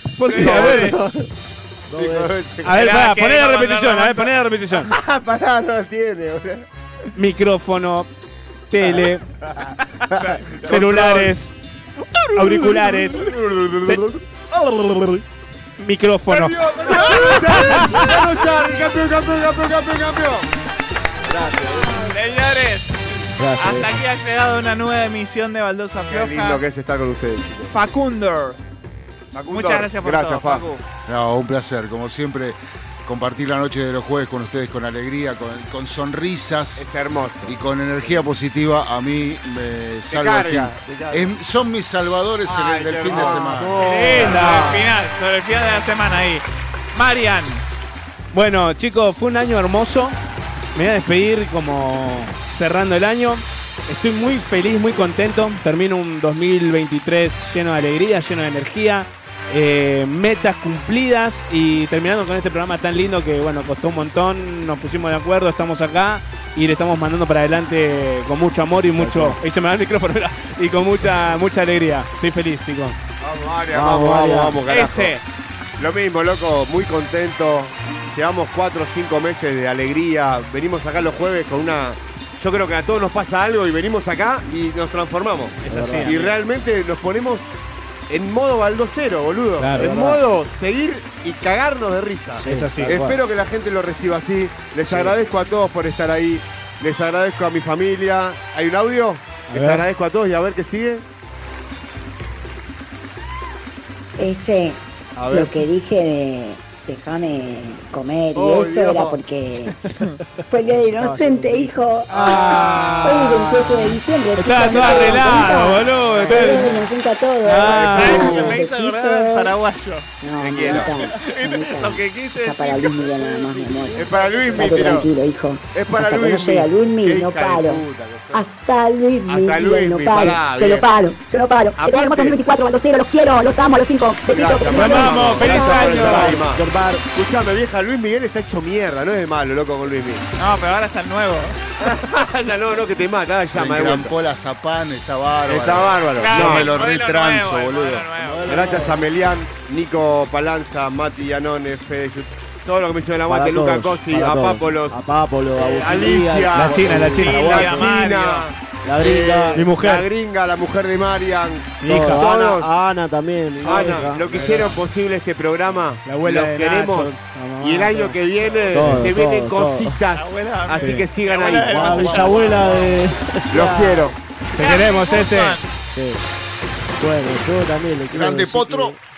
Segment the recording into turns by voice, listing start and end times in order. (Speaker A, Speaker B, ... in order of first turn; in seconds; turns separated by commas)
Speaker A: 0.2-1.2, Speaker B: 0.3-1.0, Speaker C: 0.4-0.9, Speaker C: 1.9-2.4, Speaker B: 1.9-2.9, Speaker A: 2.6-4.9, Speaker D: 2.7-4.3, Speaker B: 4.8-6.7, Speaker A: 7.2-8.1, Speaker A: 8.7-9.2, Speaker B: 9.4-11.4, Speaker D: 10.1-10.7, Speaker A: 10.6-11.5, Speaker B: 12.2-14.2, Speaker A: 12.3-13.3, Speaker C: 14.5-15.2, Speaker A: 15.8-18.1, Speaker B: 16.3-20.5, Speaker D: 17.1-17.9, Speaker B: 21.3-22.1, Speaker C: 21.5-21.8, Speaker D: 22.1-23.0, Speaker C: 23.4-24.0, Speaker D: 23.6-26.6, Speaker B: 26.1-27.7, Speaker D: 27.7-28.6, Speaker B: 29.3-30.7, Speaker D: 29.5-30.8, Speaker E: 31.1-36.9, Speaker B: 36.8-38.3, Speaker E: 37.5-43.8, Speaker B: 40.1-41.3, Speaker B: 42.5-43.5, Speaker D: 42.6-43.1, Speaker C: 43.1-44.6, Speaker A: 43.8-44.9, Speaker D: 43.9-47.7, Speaker A: 48.3-50.2, Speaker A: 50.8-73.0, Speaker C: 69.0-69.4, Speaker B: 73.2-75.2, Speaker C: 73.7-74.6, Speaker D: 74.7-75.2, Speaker B: 75.8-87.5, Speaker A: 85.6-86.3, Speaker C: 85.7-86.4, Speaker B: 88.1-101.0, Speaker A: 89.6-89.9, Speaker C: 89.8-90.2, Speaker C: 92.4-93.2, Speaker A: 92.5-93.0, Speaker C: 94.9-95.2, Speaker A: 99.5-99.8, Speaker F: 104.2-109.8, Speaker B: 105.2-105.5, Speaker B: 108.3-109.2, Speaker F: 110.5-119.6, Speaker A: 110.8-116.8, Speaker D: 115.9-116.7, Speaker A: 117.4-118.5, Speaker B: 117.7-118.6, Speaker D: 118.0-120.1, Speaker F: 120.2-135.8, Speaker B: 120.4-121.1, Speaker D: 120.7-125.0, Speaker B: 123.9-125.1, Speaker B: 125.7-128.5, Speaker B: 129.3-130.9, Speaker B: 131.8-132.4, Speaker B: 134.3-140.2, Speaker A: 134.7-136.4, Speaker C: 134.7-137.0, Speaker D: 134.8-135.9, Speaker D: 140.4-141.6, Speaker B: 141.8-144.1, Speaker E: 143.5-148.1, Speaker B: 145.5-146.8, Speaker D: 146.2-148.6, Speaker C: 148.2-149.1, Speaker B: 148.5-155.0, Speaker C: 153.3-158.0, Speaker B: 155.6-162.7, Speaker A: 156.5-157.9, Speaker D: 157.2-158.5, Speaker C: 158.8-159.7, Speaker A: 159.5-160.1, Speaker A: 161.8-162.3, Speaker C: 161.8-164.8, Speaker B: 163.6-172.8, Speaker A: 163.7-164.7, Speaker A: 166.0-169.0, Speaker C: 168.7-169.9, Speaker D: 170.1-172.8, Speaker A: 170.8-171.1, Speaker C: 171.6-174.0, Speaker B: 173.5-174.2, Speaker A: 174.6-175.6, Speaker D: 174.6-175.7, Speaker C: 175.9-176.2, Speaker C: 177.0-179.0, Speaker E: 178.1-179.0